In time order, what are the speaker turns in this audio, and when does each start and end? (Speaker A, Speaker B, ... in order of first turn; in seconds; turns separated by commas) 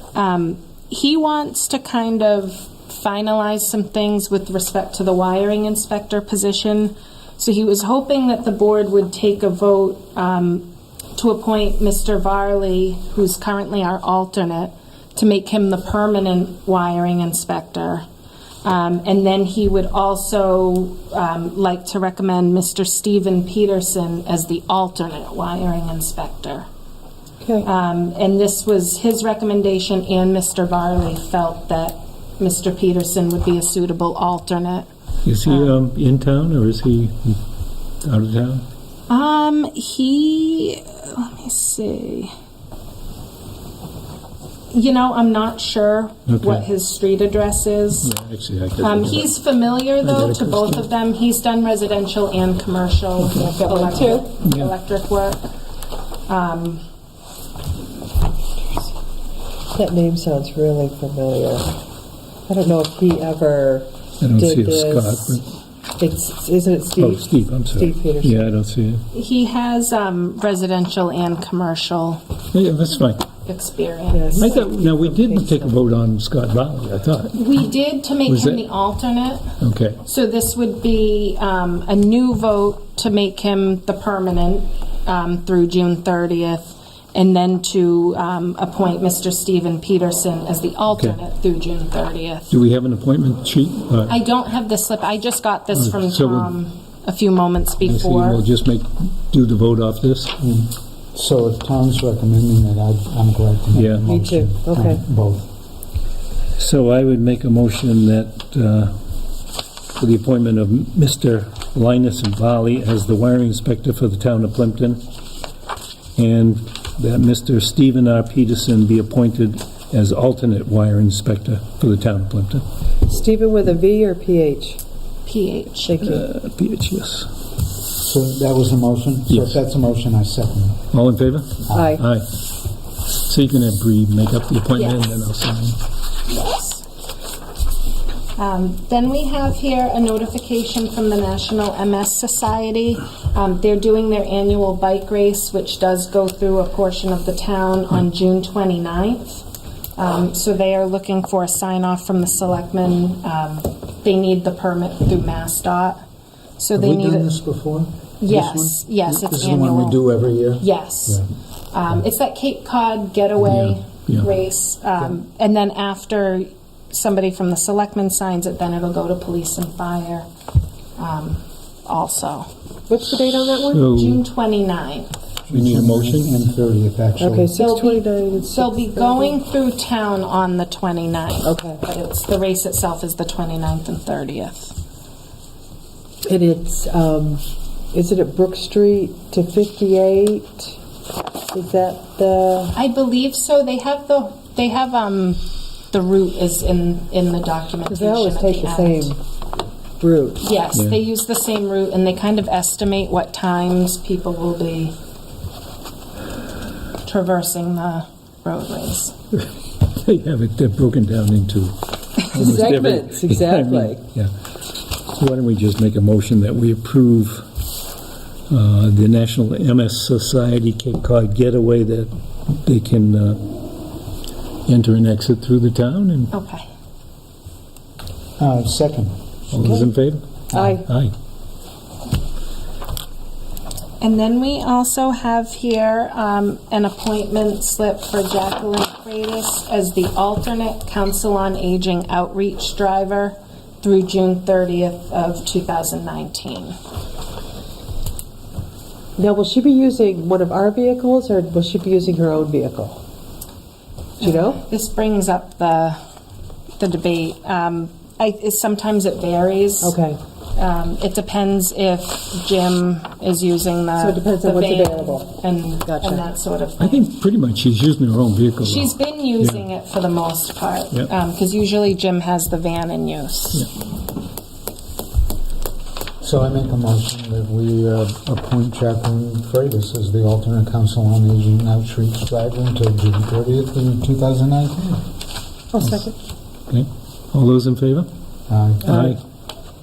Speaker A: 0.1-18.0, Speaker A: 18.6-26.6, Speaker A: 27.6-34.9, Speaker B: 35.2-37.4, Speaker A: 35.4-35.7, Speaker B: 38.0-38.6, Speaker A: 39.1-42.3, Speaker A: 44.7-48.1, Speaker B: 46.3-46.6, Speaker B: 48.0-49.3, Speaker A: 48.8-55.5, Speaker B: 50.0-50.9, Speaker B: 53.2-53.5, Speaker C: 53.6-54.3, Speaker B: 54.4-54.7, Speaker A: 56.3-56.8, Speaker C: 59.7-61.8, Speaker C: 62.5-65.4, Speaker B: 64.2-65.5, Speaker C: 66.0-68.5, Speaker B: 67.0-69.0, Speaker A: 69.1-72.2, Speaker B: 72.5-73.2, Speaker A: 73.5-74.5, Speaker C: 74.1-75.7, Speaker B: 74.3-77.6, Speaker A: 77.3-79.5, Speaker B: 78.2-78.7, Speaker B: 79.6-80.0, Speaker A: 80.0-92.5, Speaker B: 90.9-91.2, Speaker B: 92.5-94.2, Speaker A: 94.1-98.4, Speaker B: 95.7-96.5, Speaker B: 97.8-100.3, Speaker D: 100.4-105.4, Speaker B: 103.7-104.1, Speaker C: 104.0-105.0, Speaker B: 106.6-109.0, Speaker B: 110.0-115.0, Speaker B: 116.1-122.6, Speaker C: 123.0-124.8, Speaker A: 125.2-126.2, Speaker C: 125.9-126.2, Speaker B: 126.0-127.3, Speaker D: 127.9-130.8, Speaker B: 129.3-129.6, Speaker B: 130.9-132.3, Speaker D: 131.7-132.0, Speaker C: 131.7-132.0, Speaker B: 133.2-135.8, Speaker A: 134.7-135.1, Speaker A: 136.3-136.8, Speaker A: 138.3-149.4, Speaker A: 149.9-156.0, Speaker A: 156.6-157.3, Speaker D: 156.7-161.2, Speaker A: 158.2-160.0, Speaker A: 160.6-170.3, Speaker B: 163.4-164.3, Speaker A: 171.0-172.5, Speaker C: 172.9-173.9, Speaker B: 173.7-174.2, Speaker A: 173.9-175.1, Speaker B: 175.5-176.4, Speaker D: 175.5-177.5, Speaker C: 177.2-179.3, Speaker A: 177.6-184.7, Speaker C: 181.4-181.8, Speaker C: 186.2-190.8, Speaker C: 191.5-192.7, Speaker A: 192.7-199.1, Speaker C: 197.9-199.2, Speaker C: 200.0-200.4, Speaker A: 200.4-204.9, Speaker B: 200.7-201.0, Speaker A: 207.0-209.1, Speaker B: 209.9-217.5, Speaker C: 212.3-214.0, Speaker B: 218.5-223.7, Speaker B: 224.7-226.3, Speaker A: 226.3-226.6, Speaker D: 228.4-229.1, Speaker B: 229.5-231.1, Speaker C: 229.6-229.9, Speaker D: 230.5-230.8, Speaker C: 230.5-230.9, Speaker A: 234.0-246.8, Speaker C: 249.2-253.0, Speaker C: 254.2-254.6, Speaker A: 254.2-256.0, Speaker A: 256.8-259.9, Speaker C: 259.8-260.2, Speaker A: 260.6-267.1, Speaker C: 264.0-265.3, Speaker C: 265.8-266.2, Speaker B: 266.8-269.6, Speaker A: 268.6-273.7, Speaker D: 276.2-285.0, Speaker C: 285.7-286.1, Speaker B: 285.8-286.1, Speaker B: 286.7-288.1, Speaker D: 288.5-288.9, Speaker B: 288.8-289.2, Speaker C: 288.9-289.1